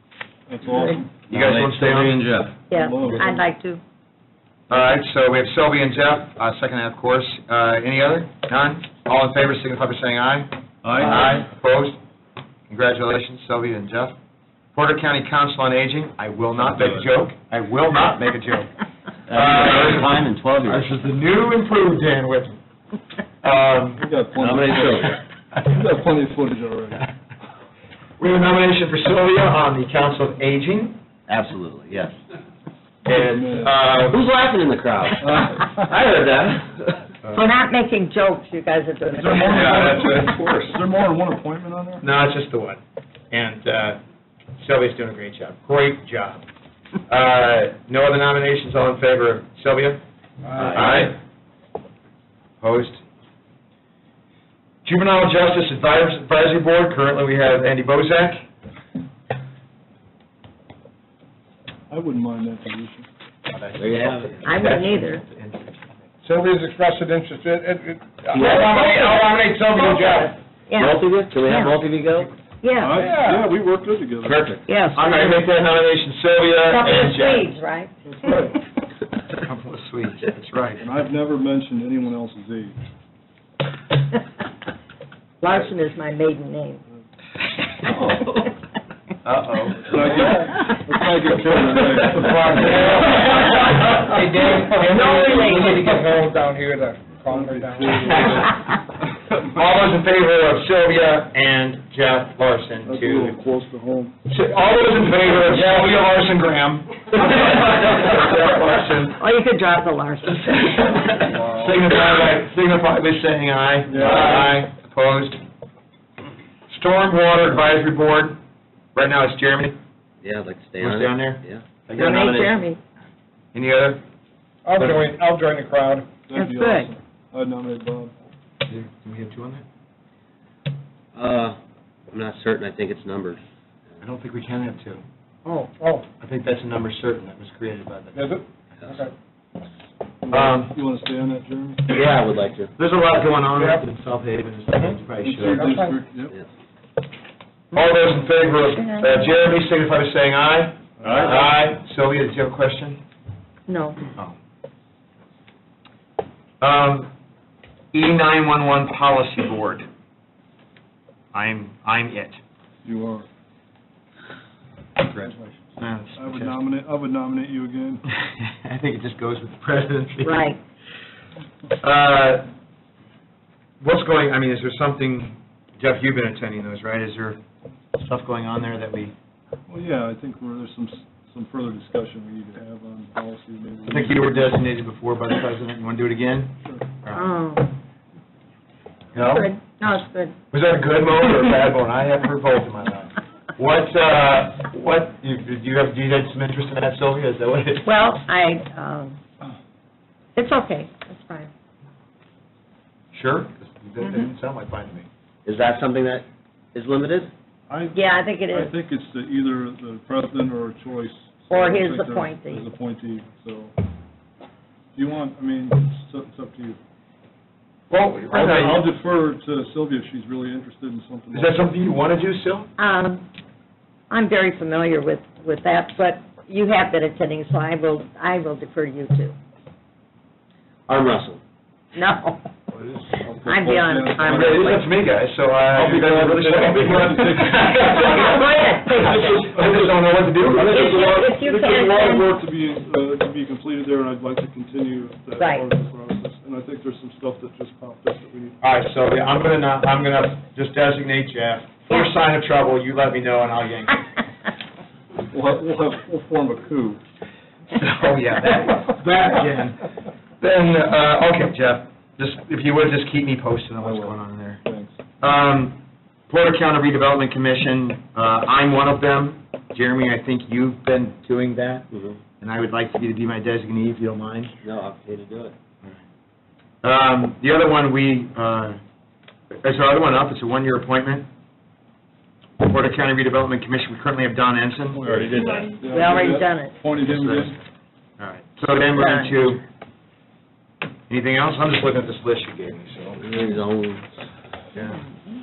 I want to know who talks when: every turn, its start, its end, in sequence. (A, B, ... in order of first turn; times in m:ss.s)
0:00.5-0:01.2 A
0:00.7-0:01.0 B
0:01.3-0:02.2 C
0:01.3-0:02.6 D
0:02.7-0:03.4 A
0:02.7-0:03.8 B
0:04.7-0:12.0 C
0:10.8-0:11.4 D
0:12.7-0:14.1 C
0:14.7-0:18.7 C
0:19.3-0:21.0 D
0:19.3-0:20.1 C
0:20.6-0:22.6 C
0:23.4-0:24.0 C
0:24.0-0:27.1 A
0:24.4-0:25.2 D
0:28.2-0:31.0 C
0:31.3-0:32.2 D
0:33.0-0:34.2 C
0:33.1-0:33.7 A
0:34.1-0:37.1 D
0:35.2-0:35.8 A
0:37.3-0:40.0 B
0:39.1-0:42.0 A
0:39.4-0:40.8 C
0:42.0-0:42.8 C
0:43.3-0:44.0 C
0:44.6-0:46.4 C
0:47.1-0:50.0 C
0:50.5-0:50.9 E
0:50.5-0:51.1 D
0:50.6-0:51.2 C
0:52.6-0:53.0 C
0:54.8-0:58.4 C
1:01.9-1:03.1 A
1:03.5-1:05.9 C
1:03.8-1:04.4 D
1:04.4-1:05.2 B
1:06.2-1:10.3 E
1:08.3-1:08.7 D
1:08.3-1:11.7 B
1:10.8-1:12.3 D
1:12.6-1:13.1 B
1:12.8-1:14.4 A
1:12.9-1:13.5 E
1:14.2-1:17.5 C
1:14.7-1:15.5 B
1:16.6-1:17.9 B
1:18.1-1:18.5 A
1:19.3-1:20.8 C
1:20.8-1:22.8 A
1:25.4-1:26.8 B
1:27.8-1:28.2 A
1:29.2-1:30.4 C
1:29.8-1:33.3 A
1:31.8-1:35.9 C
1:32.1-1:38.4 E
1:34.9-1:35.7 B
1:37.3-1:38.6 A
1:37.9-1:38.6 C
1:39.4-1:43.4 C
1:42.8-1:44.2 A
1:44.3-1:49.2 C
1:49.1-1:51.2 B
1:50.5-1:55.4 C
1:53.9-1:54.6 A
1:54.1-1:54.4 D
1:56.7-1:58.4 C
1:58.9-1:59.8 C
2:00.2-2:02.6 D
2:00.8-2:02.4 C
2:01.9-2:02.8 B
2:03.5-2:04.0 C
2:04.6-2:06.2 E
2:04.7-2:05.1 C
2:06.2-2:08.1 A
2:06.3-2:06.9 B
2:08.6-2:09.6 C
2:11.1-2:11.6 D
2:12.1-2:13.4 D
2:14.0-2:15.0 C
2:15.4-2:16.1 E
2:16.2-2:18.2 C
2:18.1-2:19.1 E
2:20.2-2:22.0 A
2:20.3-2:20.8 C
2:21.9-2:22.7 D
2:22.8-2:25.6 C
2:23.5-2:23.8 E
2:24.7-2:25.6 D
2:25.2-2:26.4 A
2:25.5-2:26.0 E
2:27.7-2:33.0 C
2:28.5-2:29.3 B
2:31.0-2:31.5 A
2:31.0-2:31.4 D
2:33.7-2:34.0 B
2:36.6-2:37.1 C
2:37.9-2:39.8 C
2:41.3-2:42.4 C
2:42.8-2:43.2 A
2:45.0-2:46.6 C
2:45.2-2:48.0 A
2:48.2-2:50.4 C
2:50.2-2:50.6 B
2:51.8-2:52.4 C
2:53.8-2:57.4 C
2:58.0-2:59.1 C
2:59.7-3:04.3 A
3:03.9-3:07.2 C
3:07.1-3:07.8 B
3:09.1-3:09.5 C
3:09.2-3:10.4 B
3:10.5-3:17.9 C
3:17.8-3:19.2 B
3:20.4-3:21.5 B
3:23.1-3:25.1 C
3:24.0-3:24.3 B
3:25.4-3:27.3 D
3:27.7-3:33.7 A
3:27.9-3:28.7 B
3:31.5-3:32.6 B
3:34.9-3:36.8 A
3:37.9-3:38.9 C
3:38.3-3:41.7 A
3:41.3-3:42.7 C
3:42.8-3:43.2 B
3:44.1-3:49.4 B
3:50.9-3:51.4 D
3:51.9-3:52.5 B
3:52.7-3:54.8 A
3:53.4-3:54.8 B
3:54.2-4:01.1 C
3:55.7-3:58.3 A
3:57.7-3:59.3 B
3:58.9-4:08.6 A
4:00.5-4:02.3 B
4:05.4-4:05.7 B
4:08.6-4:14.0 C
4:15.3-4:17.0 A
4:17.7-4:19.8 C
4:20.4-4:24.6 C
4:23.8-4:25.0 A
4:25.2-4:25.8 C
4:26.3-4:31.8 C
4:31.9-4:32.2 D
4:32.4-4:34.5 C
4:34.6-4:35.5 D
4:36.8-4:38.8 C
4:39.6-4:41.3 C
4:42.6-4:45.3 C
4:45.0-4:47.6 A
4:45.1-4:45.8 D
4:45.4-4:46.8 B
4:47.0-4:47.5 C
4:48.2-4:49.6 C
4:48.8-4:49.3 B
4:51.1-4:53.4 C
4:53.2-4:54.2 D
4:54.7-4:55.0 C